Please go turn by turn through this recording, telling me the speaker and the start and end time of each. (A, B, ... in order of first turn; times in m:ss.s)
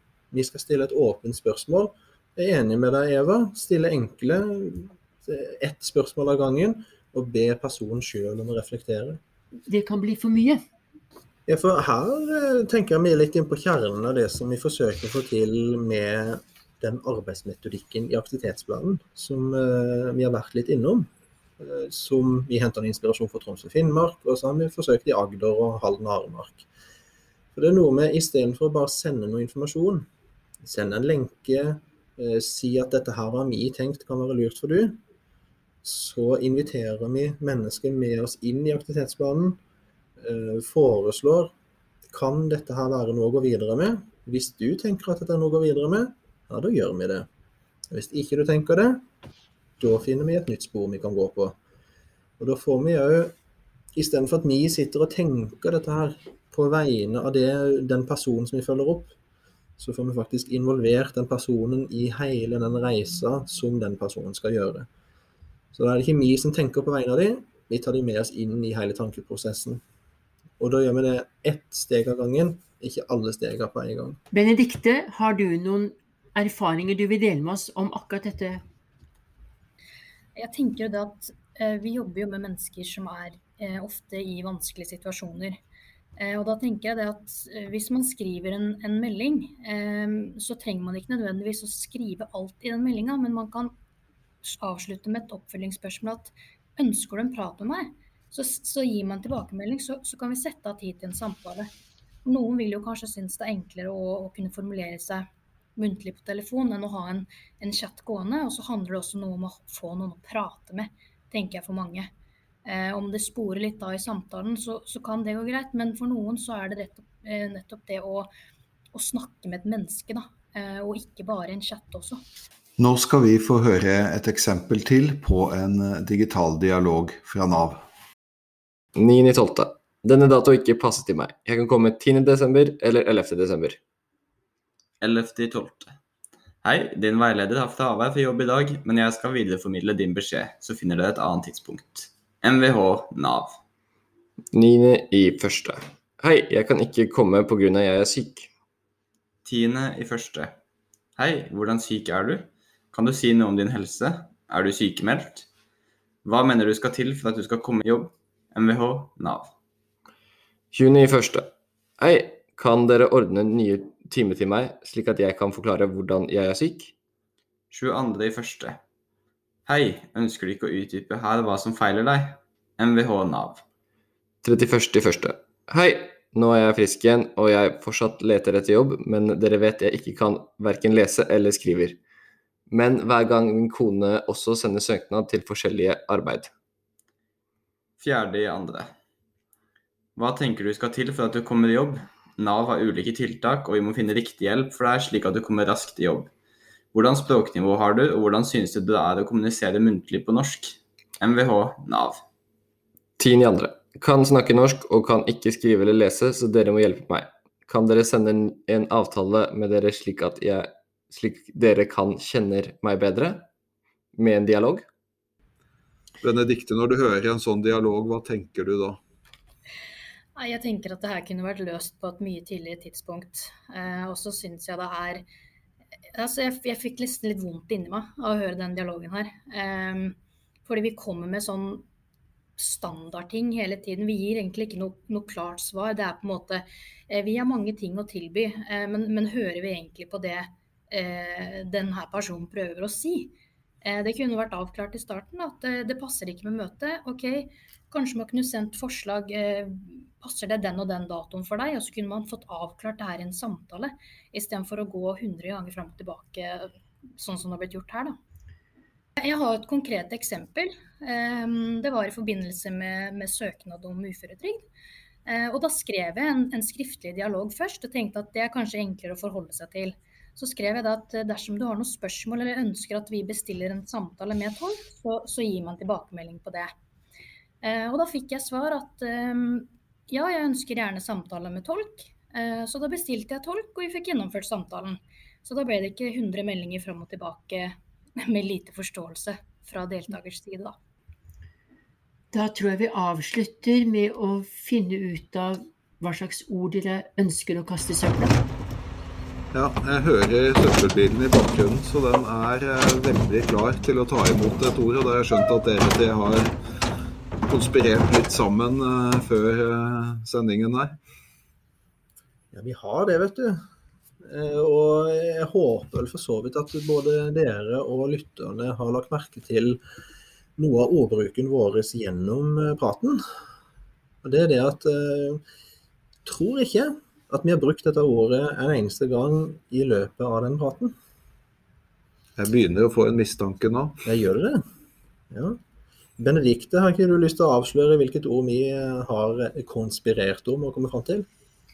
0:00.3-0:09.2 A
0:09.7-0:10.6 B
0:11.5-0:21.1 A
0:21.6-0:26.7 A
0:27.6-0:30.1 A
0:30.6-0:35.0 A
0:35.8-0:39.6 A
0:40.2-0:41.5 A
0:42.1-0:47.3 A
0:47.9-0:49.0 A
0:49.8-0:51.6 A
0:52.4-0:53.3 A
0:54.0-0:59.1 A
0:59.8-1:04.9 A
1:05.7-1:09.8 A
1:10.6-1:14.2 A
1:14.3-1:18.6 B
1:20.4-1:25.6 C
1:26.2-1:33.8 C
1:34.4-1:41.7 C
1:42.2-1:52.1 C
1:52.6-1:58.3 C
1:58.9-2:02.2 C
2:02.8-2:07.8 D
2:09.0-2:13.8 E
2:15.0-2:15.9 F
2:16.6-2:23.6 F
2:24.5-2:28.5 E
2:29.4-2:30.6 F
2:31.2-2:35.5 F
2:36.2-2:39.5 F
2:40.7-2:41.5 E
2:42.0-2:46.9 E
2:47.7-2:48.8 F
2:49.7-2:53.6 F
2:54.4-3:02.0 E
3:02.7-3:06.5 E
3:08.0-3:08.9 F
3:10.2-3:16.3 F
3:16.9-3:22.2 F
3:23.2-3:33.5 E
3:34.1-3:34.9 E
3:36.2-3:39.0 D
3:40.4-3:45.3 C
3:46.1-3:51.9 C
3:52.6-4:18.2 C
4:19.2-4:24.7 C
4:25.2-4:36.7 C
4:37.6-4:50.8 C
4:52.3-4:58.4 B
4:59.5-5:06.5 D
5:07.5-5:11.0 D
5:12.5-5:13.6 A
5:14.2-5:19.8 A
5:20.6-5:23.2 A
5:24.2-5:25.4 A
5:26.2-5:30.9 A
5:32.4-5:34.0 D
5:34.0-5:34.6 A
5:35.3-5:35.6 A
5:36.2-5:41.3 A